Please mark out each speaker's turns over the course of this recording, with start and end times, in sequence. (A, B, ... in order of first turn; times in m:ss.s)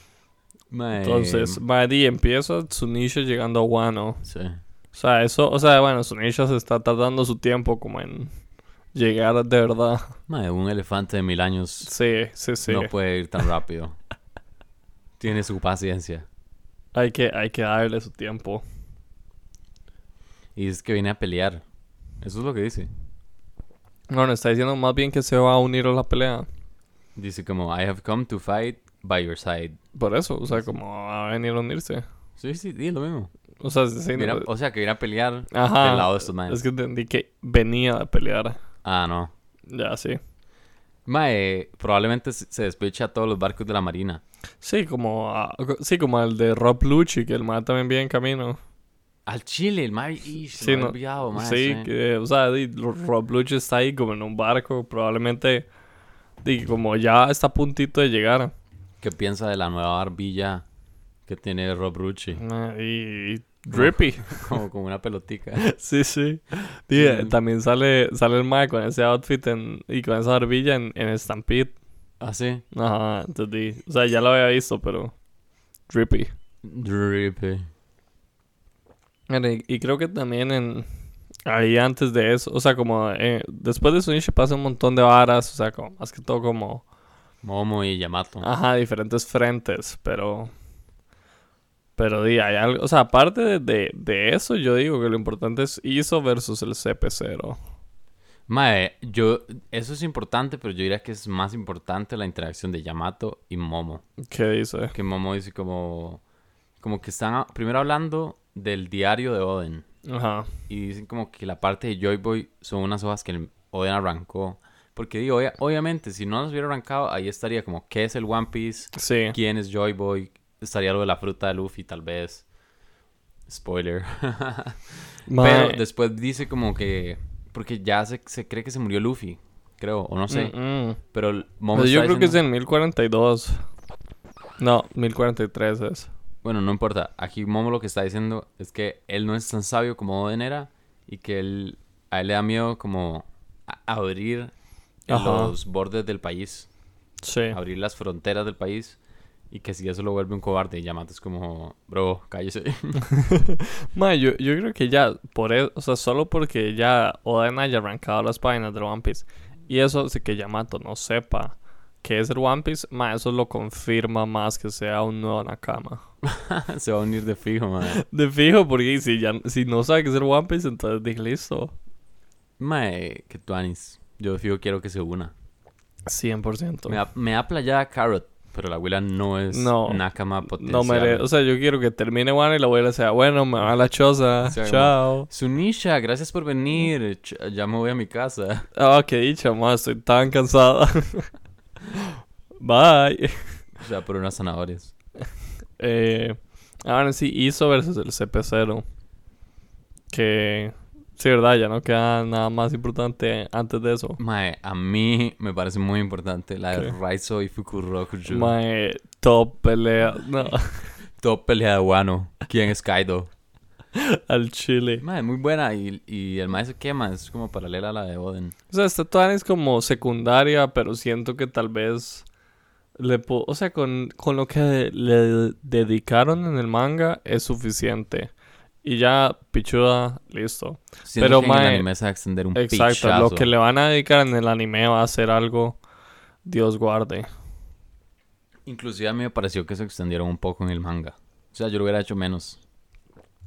0:00.7-0:01.6 A
0:01.0-0:04.2 B
0:04.2-0:04.6 A
0:04.9-0:08.3 B
0:09.0-0:10.1 B
0:10.3-0:11.9 A
0:11.8-0:12.9 B
0:12.7-0:14.0 A
0:15.2-0:16.3 A
0:17.0-0:18.6 B
0:20.6-0:21.6 A
0:22.2-0:22.9 A
0:24.1-0:26.5 B
0:27.2-0:29.8 A
0:30.0-0:32.0 B
0:32.4-0:33.3 A
0:33.6-0:34.5 B
0:34.2-0:36.6 A
0:35.5-0:38.6 B
0:38.8-0:39.3 A
0:39.7-0:40.2 B
0:41.1-0:44.2 A
0:44.6-0:48.6 B
0:49.3-0:51.9 A
0:50.6-0:55.7 B
0:56.4-0:58.5 B
0:59.0-1:00.6 A
1:01.3-1:02.4 A
1:02.4-1:04.6 B
1:03.7-1:05.6 A
1:05.6-1:11.7 B
1:06.9-1:07.4 A
1:12.2-1:12.6 A
1:12.7-1:15.1 B
1:15.9-1:16.3 B
1:16.6-1:17.7 A
1:19.3-1:20.9 B
1:21.5-1:26.8 B
1:27.4-1:28.5 A
1:28.4-1:30.5 B
1:32.0-1:37.6 B
1:38.5-1:44.0 A
1:44.2-1:44.9 B
1:44.9-1:46.2 A
1:46.8-1:49.8 A
1:50.1-1:50.5 B
1:50.7-2:02.4 A
1:58.9-1:59.4 B
2:03.5-2:10.5 A
2:05.3-2:05.8 B
2:10.3-2:11.0 B
2:11.1-2:12.4 A
2:11.7-2:13.7 B
2:14.6-2:16.1 B
2:16.4-2:24.5 A
2:25.1-2:26.7 A
2:25.1-2:25.6 B
2:27.2-2:27.6 B
2:27.5-2:29.0 A
2:29.5-2:33.0 A
2:33.1-2:46.0 B
2:46.2-2:48.0 A
2:47.8-2:51.7 B
2:52.6-2:55.3 A
2:56.1-2:57.0 B
2:56.9-3:01.3 A
2:59.5-3:05.3 B
3:04.4-3:08.7 A
3:08.8-3:11.3 B
3:12.6-3:13.6 B
3:13.8-3:14.9 A
3:15.8-3:18.8 B
3:20.1-3:24.2 B
3:24.2-3:28.5 A
3:28.3-3:30.9 B
3:31.2-3:33.3 A
3:34.0-3:35.0 B
3:35.0-3:38.5 A
3:38.7-3:42.2 B
3:43.0-3:48.3 B
3:48.8-3:51.9 B
3:51.0-3:53.5 A
3:52.6-3:55.8 B
3:56.4-3:57.3 B
3:58.7-4:02.6 A